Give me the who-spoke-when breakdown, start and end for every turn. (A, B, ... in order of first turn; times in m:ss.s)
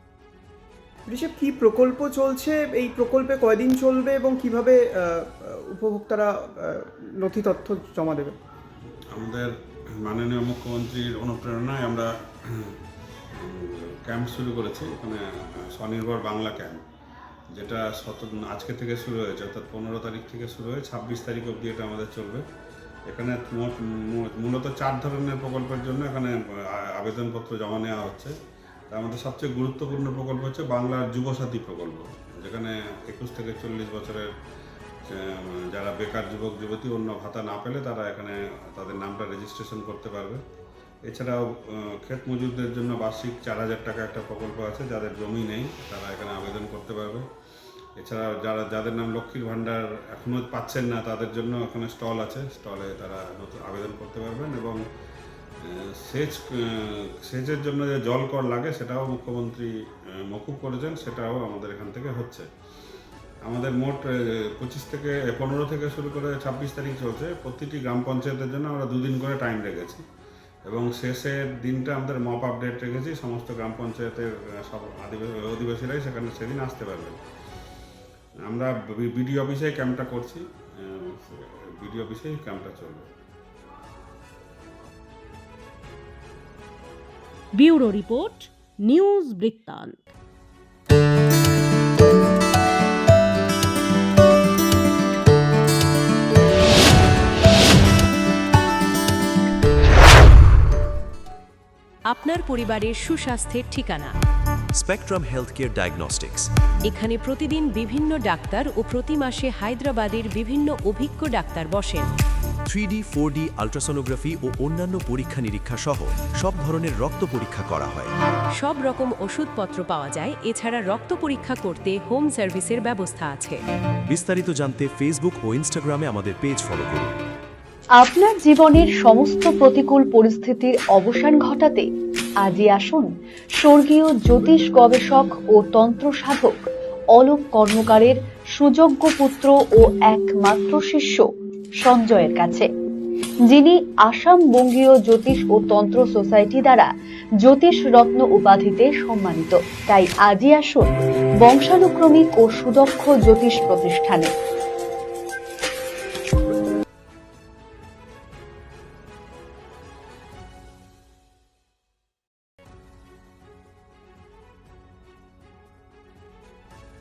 0:01.1-0:04.8 A
0:05.8-0:06.3 A
0:07.2-0:08.3 A
0:09.1-0:09.5 B
0:10.0-0:12.8 B
0:13.4-0:15.2 B
0:15.7-0:16.8 B
0:17.6-0:22.4 B
0:23.1-0:28.3 B
0:28.9-0:34.3 B
0:35.1-0:40.4 B
0:41.1-0:47.2 B
0:48.0-0:54.8 B
0:55.7-0:59.7 B
1:00.3-1:02.4 B
1:03.5-1:04.1 B
1:04.6-1:10.0 B
1:10.7-1:17.2 B
1:18.5-1:23.0 B
1:27.6-1:30.0 C
1:42.1-1:44.1 D
1:44.7-1:46.5 E
1:46.9-1:52.1 D
1:52.6-1:58.1 E
1:58.6-2:03.6 D
2:04.1-2:07.1 E
2:08.0-2:11.9 F
2:12.4-2:13.1 F
2:13.6-2:21.3 F
2:21.8-2:22.7 F
2:23.5-2:26.9 F
2:27.4-2:34.3 F